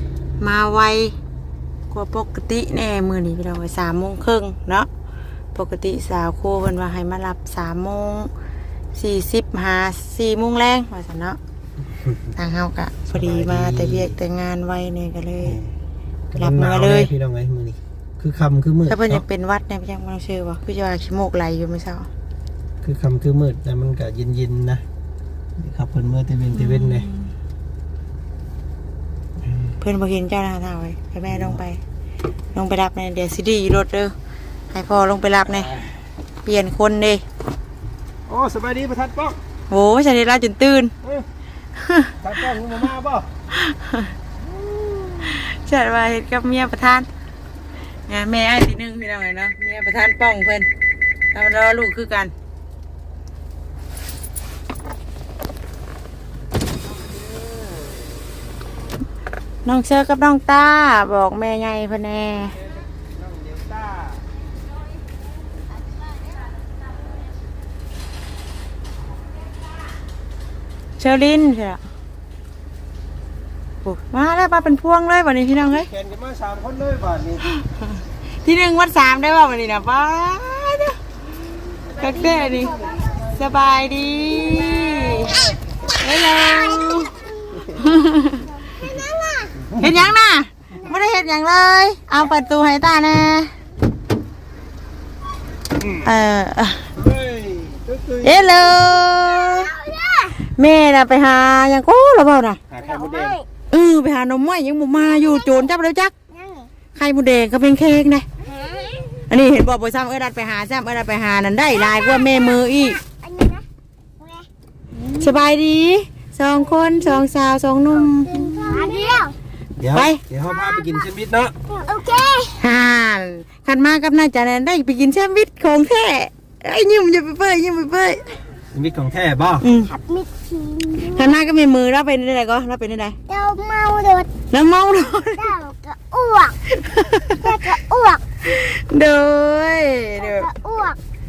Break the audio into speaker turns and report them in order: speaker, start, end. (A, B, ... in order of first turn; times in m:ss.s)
0:00.4-0:01.2 A
0:01.9-0:04.9 A
0:05.5-0:08.3 A
0:08.9-0:11.4 A
0:12.4-0:15.6 A
0:13.1-0:14.2 B
0:15.4-0:15.7 B
0:16.3-0:19.2 B
0:16.4-0:17.1 A
0:18.9-0:22.1 A
0:22.8-0:24.8 B
0:25.6-0:27.1 B
0:26.5-0:27.3 A
0:29.8-0:31.8 A
0:31.3-0:31.6 B
0:32.5-0:34.1 A
0:34.7-0:35.7 A
0:36.4-0:37.2 A
0:38.3-0:39.4 B
0:39.7-0:40.9 A
0:41.8-0:42.1 A
0:42.2-0:43.3 B
0:43.5-0:44.1 A
0:45.2-0:47.1 A
0:48.1-0:50.7 A
0:51.3-0:52.3 A
0:59.6-1:02.6 A
1:11.0-1:11.8 A
1:13.8-1:15.9 A
1:15.7-1:17.5 B
1:18.4-1:21.0 A
1:21.9-1:23.2 C
1:22.0-1:25.5 A
1:24.6-1:25.3 C
1:26.0-1:27.1 A
1:26.3-1:27.7 C
1:27.8-1:28.4 A
1:28.6-1:29.5 C
1:29.8-1:33.5 A
1:30.8-1:31.2 C
1:36.0-1:36.9 A
1:37.0-1:38.7 B
1:38.2-1:39.7 A
1:39.2-1:40.4 C
1:40.4-1:42.6 A
1:42.7-1:43.4 B
1:42.8-1:43.4 C
1:43.7-1:46.1 A
1:45.0-1:45.7 C
1:46.3-1:46.7 C
1:47.0-1:48.3 A
1:48.4-1:49.2 C
1:49.3-1:53.0 A
1:51.7-1:53.6 C
1:54.2-1:54.5 C
1:55.2-1:58.9 A
1:56.8-1:57.2 C
1:57.9-1:59.4 C
1:59.8-2:01.5 B
1:59.9-2:00.2 A
2:00.6-2:01.0 C
2:01.7-2:02.6 C
2:02.6-2:08.4 A
2:08.7-2:09.7 B
2:09.6-2:09.9 A
2:09.9-2:11.4 C
2:11.1-2:13.2 A
2:13.3-2:14.3 C
2:14.5-2:15.5 A
2:15.4-2:16.6 C
2:16.7-2:17.4 A
2:17.3-2:18.2 C
2:18.4-2:20.5 A
2:20.2-2:21.0 C